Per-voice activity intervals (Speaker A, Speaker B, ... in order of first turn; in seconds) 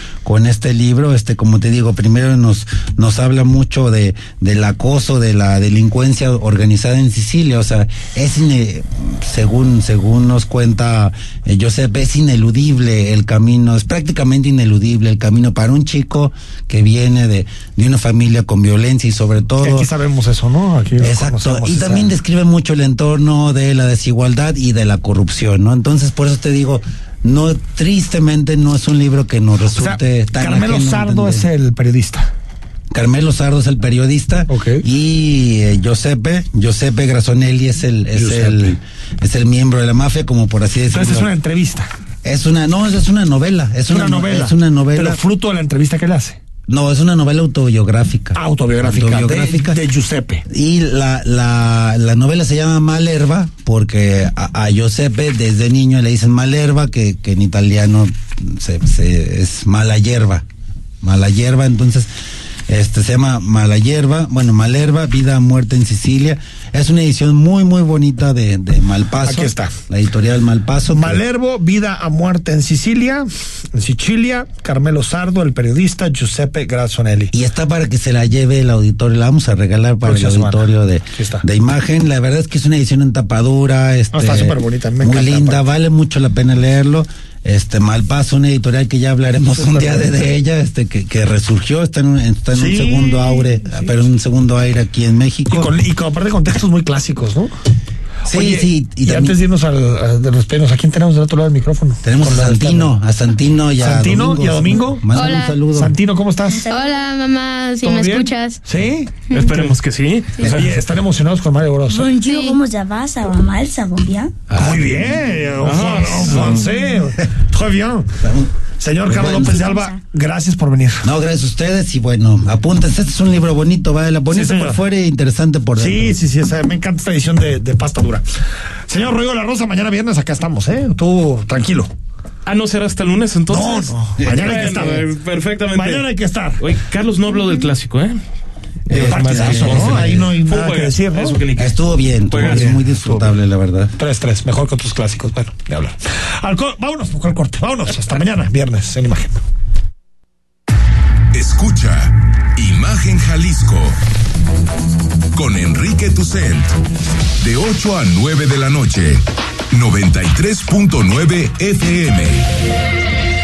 Speaker A: 0.2-19.9, 21.0-31.5, 32.9-41.3, 42.2-45.2, 46.7-49.8, 50.5-60.4, 61.0-62.1, 62.7-71.2, 77.3-95.7, 98.2-99.4, 102.0-106.0, 110.4-110.7, 114.5-115.2, 116.0-116.4, 118.2-118.5, 119.0-119.5, 121.0-126.2, 134.2-134.7, 138.9-140.3, 141.5-143.9
Speaker B: 19.6-22.1, 29.7-32.3, 34.5-34.8, 38.1-38.8, 40.9-41.9, 43.9-46.4, 48.3-50.4, 69.2-69.7, 70.9-77.3, 80.0-81.5, 84.1-85.7, 89.5-90.3, 92.5-93.9, 95.5-97.5, 98.2-102.9, 103.8-105.1, 105.7-106.7, 107.8-109.1, 110.4-112.1, 114.5-118.2, 118.8-121.1, 124.3-124.8, 125.8-128.2, 128.9-131.9, 133.5-135.1, 135.7-136.6, 138.9-141.4, 142.4-143.4, 143.9-149.4
Speaker C: 105.1-105.6, 106.7-108.6, 109.3-109.7, 112.2-112.5
Speaker D: 106.5-107.0, 111.9-114.3, 119.4-120.0
Speaker E: 109.3-110.7, 115.6-116.7, 132.4-136.1, 136.6-138.2, 138.8-142.8
Speaker F: 151.3-154.0, 155.3-156.8, 157.4-162.5